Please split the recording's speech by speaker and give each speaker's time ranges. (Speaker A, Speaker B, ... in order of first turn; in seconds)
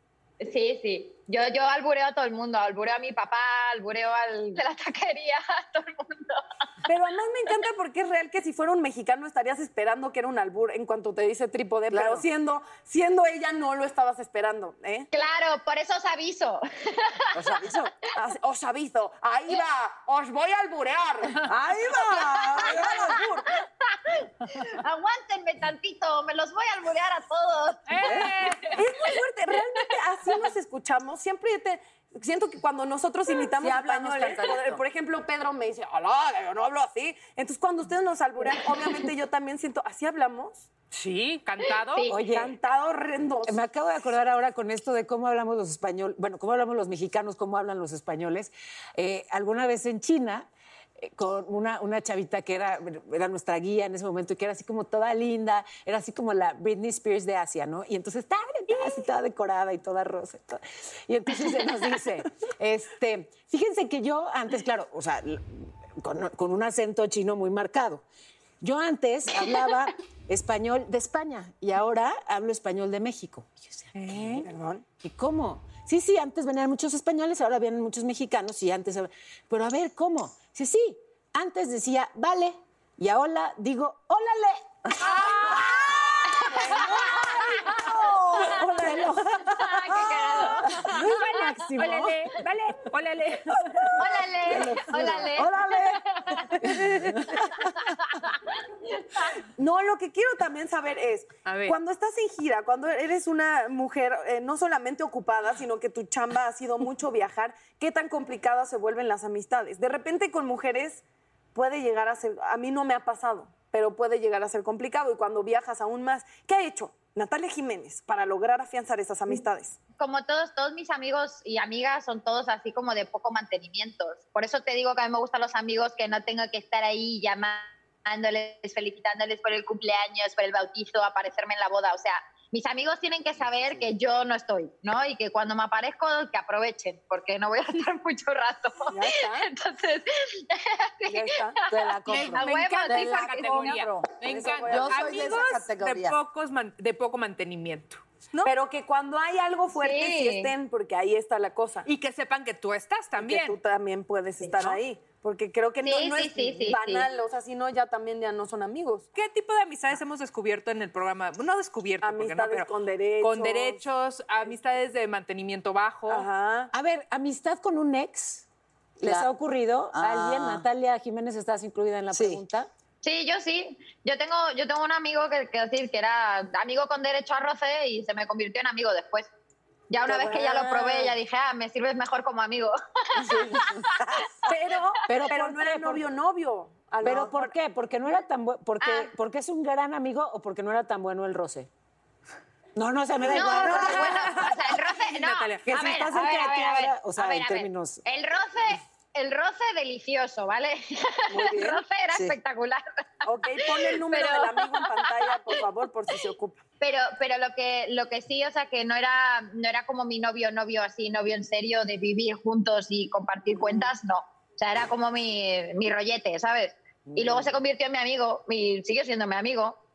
Speaker A: 0.4-6.4, 15.1-17.4, 23.6-24.0, 24.6-28.3, 38.4-39.1, 41.7-42.2, 86.3-87.2, 89.6-90.6, 94.0-96.5, 120.0-143.3, 149.7-150.5, 155.8-157.1, 173.0-179.3, 179.9-184.0, 188.8-189.1, 193.2-202.8, 203.4-205.6, 206.8-219.8
Speaker B: 6.9-15.1, 18.1-21.4, 22.5-23.5, 28.7-40.7, 42.2-43.6, 74.4-74.8, 86.4-87.6, 90.4-90.9, 99.5-111.0, 111.5-119.8, 138.9-139.5, 141.1-143.7, 144.2-145.4, 148.4-151.8, 153.2-159.1, 162.0-163.8, 166.1-166.7, 180.1-181.2, 183.2-183.6, 184.4-187.5, 201.3-201.8, 203.2-206.6
Speaker C: 11.9-12.2, 17.3-17.9, 21.4-23.2, 28.0-28.3, 33.6-34.8, 87.8-88.5, 141.8-146.2, 169.0-169.3, 169.9-170.6, 172.1-172.4, 187.0-187.3, 193.5-194.2, 201.7-202.3
Speaker D: 27.9-28.8, 40.9-42.1, 73.9-74.5, 85.0-85.7, 90.8-93.9, 96.6-97.2, 101.4-101.8, 142.4-148.5, 151.8-153.6, 159.1-166.3, 193.6-195.7
Speaker E: 42.1-42.5, 43.4-68.0, 68.6-74.5, 75.0-84.8, 86.6-92.3, 94.4-95.9, 96.5-97.7, 166.7-168.4, 169.0-172.7, 185.1-186.0, 187.0-191.7, 192.8-194.2, 195.6-198.0